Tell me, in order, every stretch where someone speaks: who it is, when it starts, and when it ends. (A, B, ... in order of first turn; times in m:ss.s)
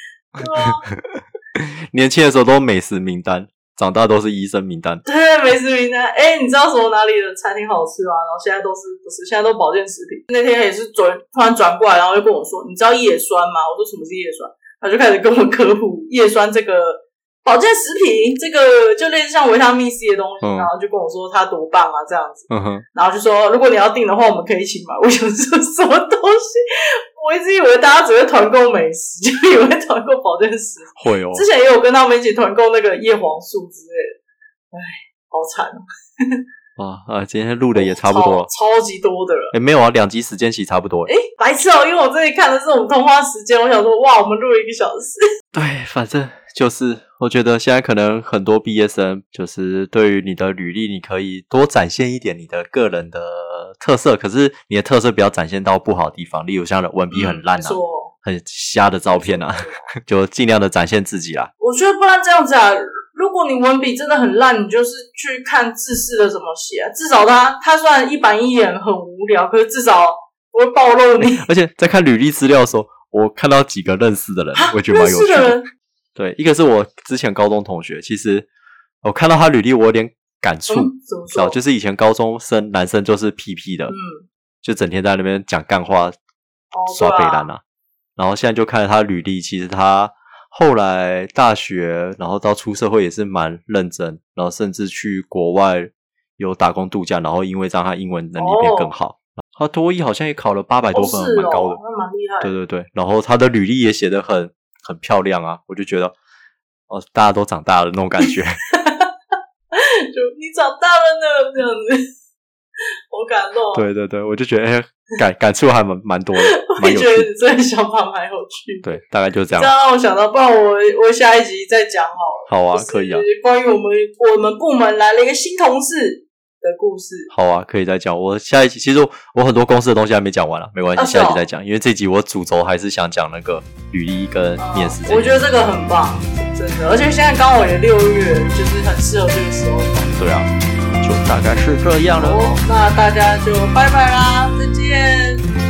0:00.4-0:00.8 A
0:01.1-0:05.0 B
0:05.0-0:26.6 A
0:20.4-0:20.7 B
0:22.5-0:22.8 B
0:27.2-0:34.2 A
0:31.0-0:31.4 B
0:34.7-0:36.4 A
0:36.8-0:38.5 B
0:37.7-0:39.5 A
0:39.5-0:41.1 B
0:41.1-0:45.2 A
0:45.5-1:01.5 B
0:57.1-0:58.1 A
0:59.1-0:59.8 A
1:01.6-1:11.4 A
1:11.4-1:15.6 B
1:14.5-1:15.6 A
1:16.2-1:18.5 B
1:19.0-1:23.9 B
1:20.7-1:21.6 A
1:23.9-1:24.2 A
1:24.6-1:26.2 B
1:26.7-1:27.5 A
1:26.9-1:27.6 B
1:28.2-1:41.8 B
1:38.4-1:38.9 A
1:40.9-1:42.5 A
1:42.4-1:46.1 B
1:46.9-1:48.6 B
1:48.7-1:49.1 A
1:49.7-1:52.0 A
1:53.1-1:53.8 A
1:53.7-1:57.3 B
1:56.4-1:59.0 A
1:58.8-1:59.7 B
1:59.5-2:07.3 A
2:02.5-2:03.2 B
2:07.3-2:15.3 B
2:11.0-2:11.4 A
2:14.6-2:20.1 A
2:20.1-2:22.6 B
2:22.2-2:25.4 A